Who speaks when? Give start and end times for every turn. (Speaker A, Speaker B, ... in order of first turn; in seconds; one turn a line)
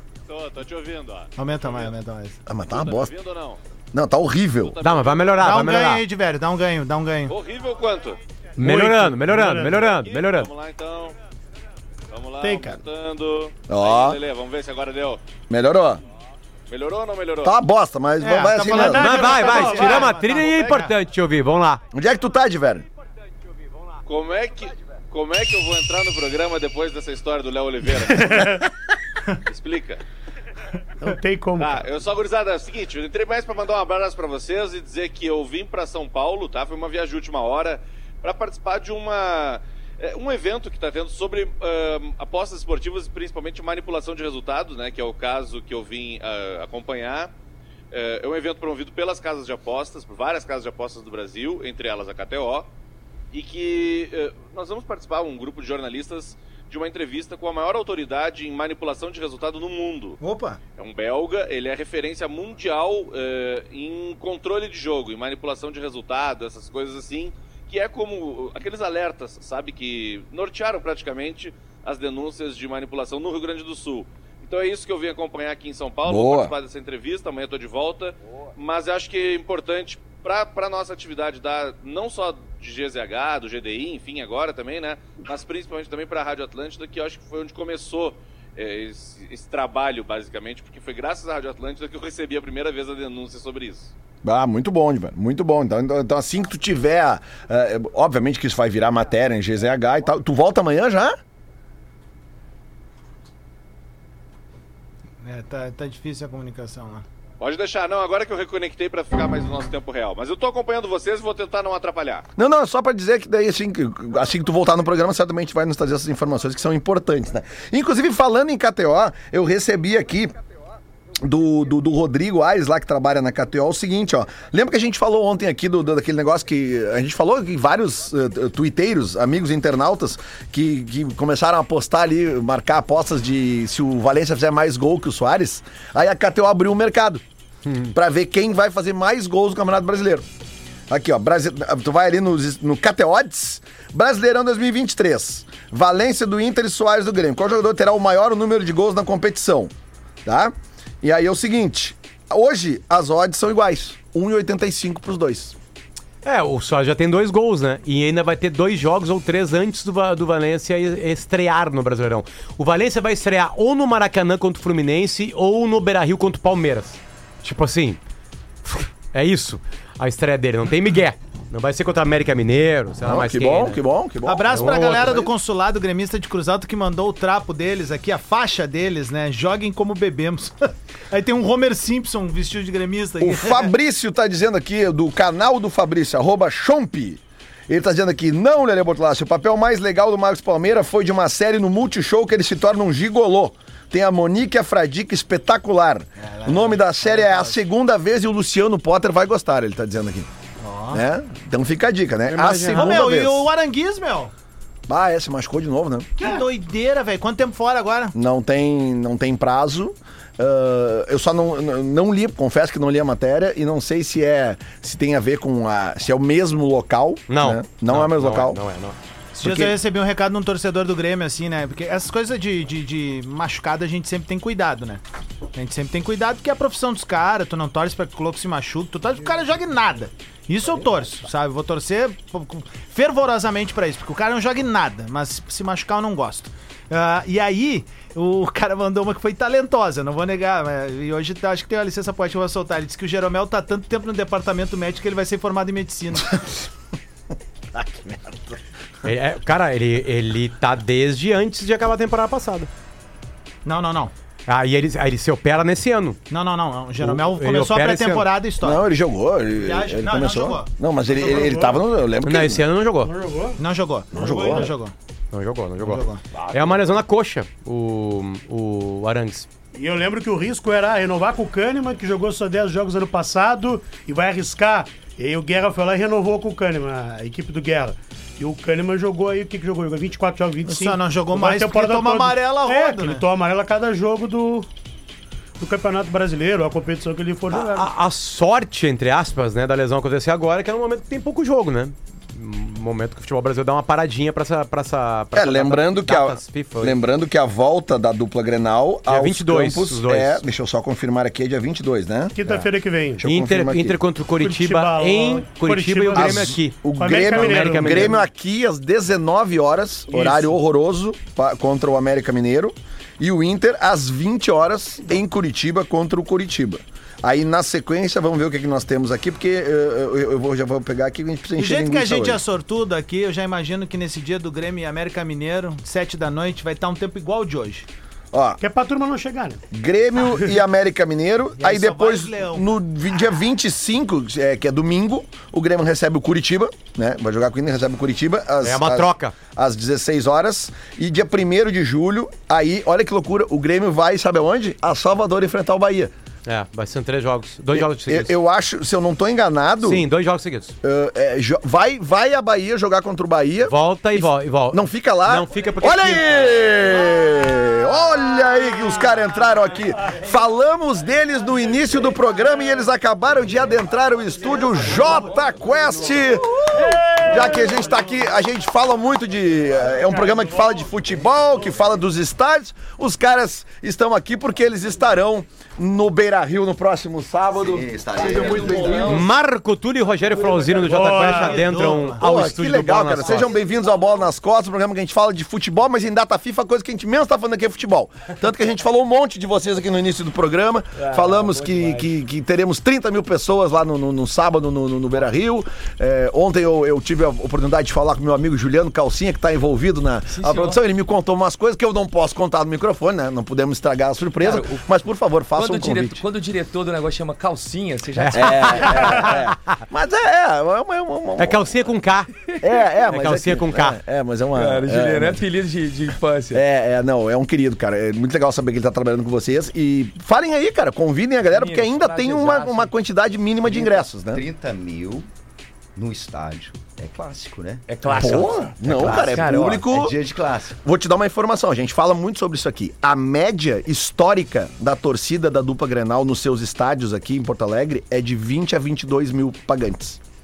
Speaker A: 0.3-1.9
Speaker B: 1.4-2.4
Speaker C: 2.5-3.1
Speaker A: 2.7-3.6
Speaker C: 3.9-4.8
Speaker A: 4.6-5.6
Speaker D: 4.8-6.0
Speaker B: 5.4-7.4
Speaker A: 7.3-8.2
Speaker E: 8.6-9.8
Speaker D: 8.6-10.5
Speaker A: 9.7-11.2
Speaker A: 12.1-15.2
Speaker E: 12.4-12.8
Speaker C: 13.7-14.2
Speaker C: 15.5-16.0
Speaker A: 16.7-17.5
Speaker C: 17.4-19.3
Speaker B: 18.2-20.9
Speaker E: 18.7-20.2
Speaker D: 18.9-21.8
Speaker C: 21.9-22.9
Speaker A: 24.1-28.6
Speaker E: 28.1-28.6
Speaker A: 29.5-30.0
Speaker E: 31.0-31.9
Speaker A: 31.6-47.3
Speaker A: 47.9-52.7
Speaker A: 53.3-60.2
Speaker B: 60.2-60.6
Speaker A: 60.8-93.9
Speaker C: 76.0-76.5
Speaker C: 94.2-101.2
Speaker B: 105.2-107.0
Speaker A: 107.4-112.3
Speaker C: 112.4-120.3
Speaker C: 121.2-137.2
Speaker D: 137.7-137.9
Speaker C: 137.9-140.2
Speaker C: 140.9-149.7
Speaker C: 150.2-155.6
Speaker D: 156.2-168.0
Speaker D: 168.7-173.8
Speaker C: 173.0-175.3
Speaker B: 174.3-183.7
Speaker D: 174.5-175.3
Speaker C: 183.2-200.3
Speaker B: 196.2-197.6
Speaker B: 200.6-201.0
Speaker C: 200.9-203.5
Speaker D: 202.3-203.0
Speaker B: 202.7-204.3
Speaker C: 204.9-206.1
Speaker B: 206.2-208.2
Speaker C: 208.1-218.6
Speaker D: 217.3-219.0
Speaker B: 219.3-225.0
Speaker C: 219.4-219.8
Speaker B: 225.5-246.4
Speaker C: 247.7-248.6
Speaker D: 249.0-252.7
Speaker B: 253.7-254.1
Speaker D: 254.5-256.2
Speaker B: 256.3-258.9
Speaker D: 257.0-258.3
Speaker C: 258.6-262.7
Speaker B: 259.5-261.8
Speaker D: 262.2-263.1
Speaker E: 263.1-263.6
Speaker B: 263.6-264.9
Speaker C: 264.1-264.7
Speaker E: 264.2-264.7
Speaker D: 265.3-269.5
Speaker B: 265.8-266.2
Speaker E: 269.7-284.7
Speaker B: 280.7-283.2
Speaker E: 285.6-287.9
Speaker D: 287.5-297.0
Speaker C: 295.3-302.7
Speaker D: 299.1-300.4
Speaker E: 302.4-303.2
Speaker C: 303.2-304.0
Speaker D: 303.2-308.2
Speaker E: 304.4-308.2
Speaker C: 306.1-322.4
Speaker E: 310.1-310.5
Speaker B: 321.6-327.9
Speaker C: 328.3-328.6
Speaker E: 328.6-329.6
Speaker C: 329.7-346.1
Speaker B: 331.6-332.7
Speaker D: 338.6-339.4
Speaker D: 346.5-348.3
Speaker C: 347.7-350.1
Speaker D: 349.8-350.8
Speaker C: 350.8-379.3
Speaker D: 353.7-356.6
Speaker F: 364.5-366.0
Speaker E: 366.7-368.0
Speaker E: 369.9-370.8
Speaker G: 377.6-379.1
Speaker F: 378.2-379.2
Speaker D: 379.1-383.5
Speaker B: 380.7-382.2
Speaker E: 380.9-381.9
Speaker C: 382.2-406.2
Speaker F: 390.9-392.1
Speaker F: 400.3-400.8
Speaker F: 404.4-404.9
Speaker F: 405.5-409.3
Speaker D: 408.2-409.4
Speaker C: 408.3-411.8
Speaker D: 411.4-412.3
Speaker F: 412.4-412.8
Speaker C: 412.6-415.5
Speaker D: 413.1-414.0
Speaker F: 414.6-416.6
Speaker C: 416.5-424.4
Speaker F: 421.4-422.9
Speaker G: 423.7-425.3
Speaker F: 423.8-424.0
Speaker G: 425.9-430.8
Speaker F: 427.9-429.9
Speaker C: 428.1-430.1
Speaker C: 430.8-440.2